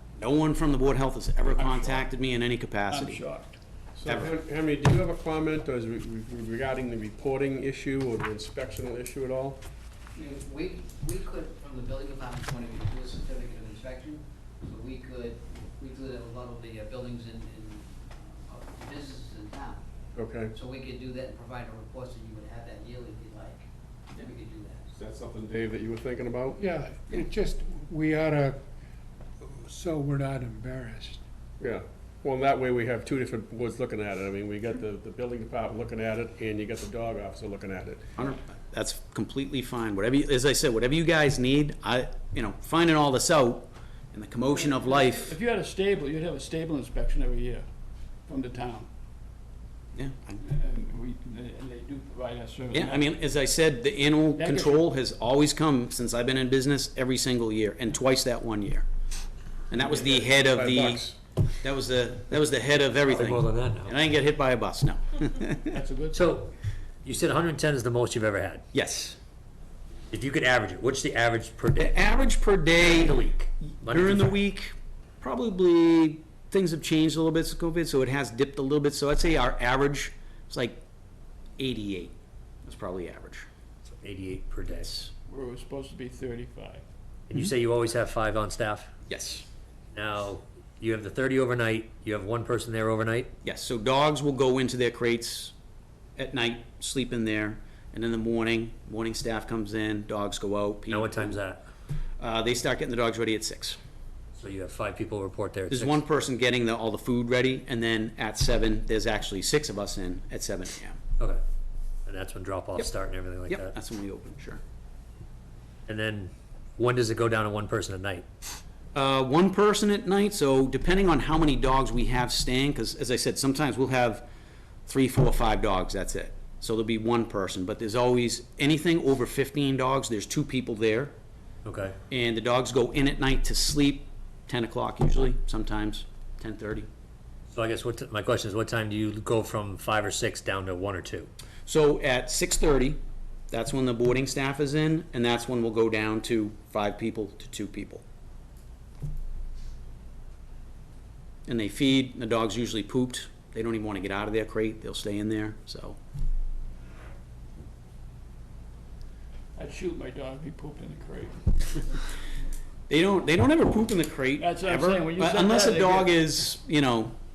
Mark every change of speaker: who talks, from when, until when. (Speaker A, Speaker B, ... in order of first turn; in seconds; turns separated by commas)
Speaker A: 0.2-3.2, Speaker B: 1.6-2.0, Speaker B: 2.9-3.6, Speaker C: 3.9-9.6, Speaker A: 4.0-4.3, Speaker D: 10.2-19.8, Speaker C: 20.1-20.5, Speaker D: 20.5-24.9, Speaker C: 24.9-27.2, Speaker E: 26.6-28.6, Speaker E: 29.4-31.2, Speaker C: 31.6-38.0, Speaker A: 38.2-45.3, Speaker B: 44.5-47.6, Speaker B: 48.3-48.9, Speaker A: 50.0-50.4, Speaker B: 50.4-53.1, Speaker A: 52.7-58.9, Speaker B: 54.3-54.9, Speaker A: 59.7-61.0, Speaker C: 59.7-61.2, Speaker A: 61.6-65.7, Speaker F: 63.1-63.9, Speaker B: 65.7-66.3, Speaker F: 66.1-66.5, Speaker F: 67.0-68.6, Speaker A: 68.7-69.2, Speaker F: 70.1-74.3, Speaker A: 71.8-73.2, Speaker A: 73.8-80.8, Speaker A: 81.6-83.5, Speaker F: 83.9-85.0, Speaker B: 85.3-86.8, Speaker F: 87.3-88.9, Speaker A: 89.1-89.5, Speaker F: 89.9-93.3, Speaker A: 93.4-95.5, Speaker A: 96.2-101.4, Speaker F: 100.9-101.6, Speaker A: 102.2-103.8, Speaker F: 104.3-106.0, Speaker A: 105.7-111.0, Speaker F: 112.1-113.8, Speaker A: 113.5-114.6, Speaker F: 115.9-118.2, Speaker A: 118.9-124.2, Speaker A: 124.8-131.1, Speaker F: 131.7-132.0, Speaker A: 132.1-136.9, Speaker F: 137.5-141.3, Speaker A: 141.7-143.0, Speaker A: 143.5-148.0, Speaker A: 151.5-156.0, Speaker B: 159.6-162.0, Speaker A: 162.9-167.2, Speaker B: 164.4-166.2